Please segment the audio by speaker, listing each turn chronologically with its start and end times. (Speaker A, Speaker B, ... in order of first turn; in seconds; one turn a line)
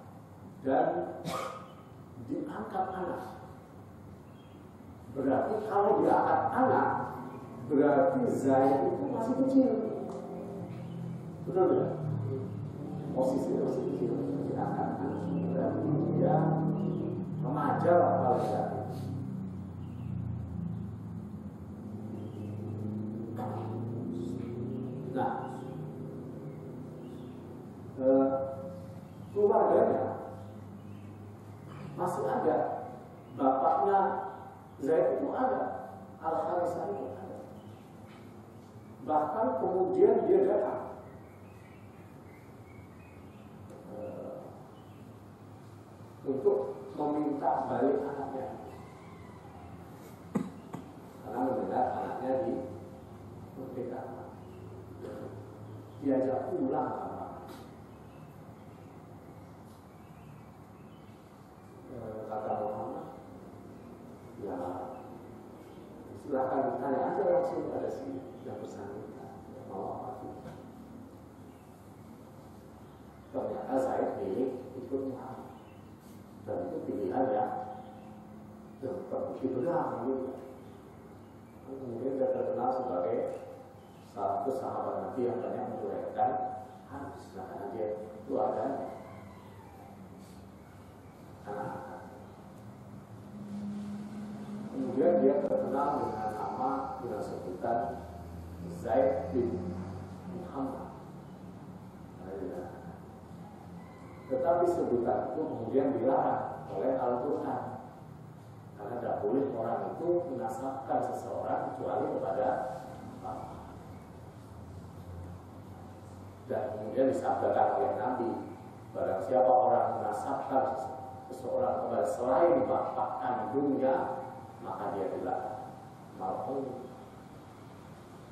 Speaker A: 0.6-1.1
Speaker A: 2.2-3.2
Speaker A: 5.1-6.9
Speaker A: 7.7-10.0
Speaker A: 11.4-11.9
Speaker A: 13.1-16.4
Speaker A: 17.4-19.0
Speaker A: 25.1-25.4
Speaker A: 28.0-28.4
Speaker A: 29.3-30.1
Speaker A: 32.0-32.6
Speaker A: 33.3-34.2
Speaker A: 34.8-35.7
Speaker A: 36.2-37.5
Speaker A: 39.0-40.9
Speaker A: 43.9-44.5
Speaker A: 46.2-48.6
Speaker A: 51.2-52.6
Speaker A: 53.5-54.3
Speaker A: 55.0-55.3
Speaker A: 56.0-57.5
Speaker A: 61.8-63.1
Speaker A: 64.4-64.9
Speaker A: 66.1-70.5
Speaker A: 73.3-75.5
Speaker A: 76.4-77.5
Speaker A: 78.8-80.5
Speaker A: 81.6-83.2
Speaker A: 84.1-86.3
Speaker A: 86.9-88.9
Speaker A: 91.4-92.2
Speaker A: 94.7-97.8
Speaker A: 98.6-99.7
Speaker A: 100.3-100.9
Speaker A: 102.2-103.0
Speaker A: 104.3-107.8
Speaker A: 108.8-112.5
Speaker A: 113.2-113.6
Speaker A: 116.5-118.3
Speaker A: 118.9-124.0
Speaker A: 124.6-125.6
Speaker A: 126.2-126.8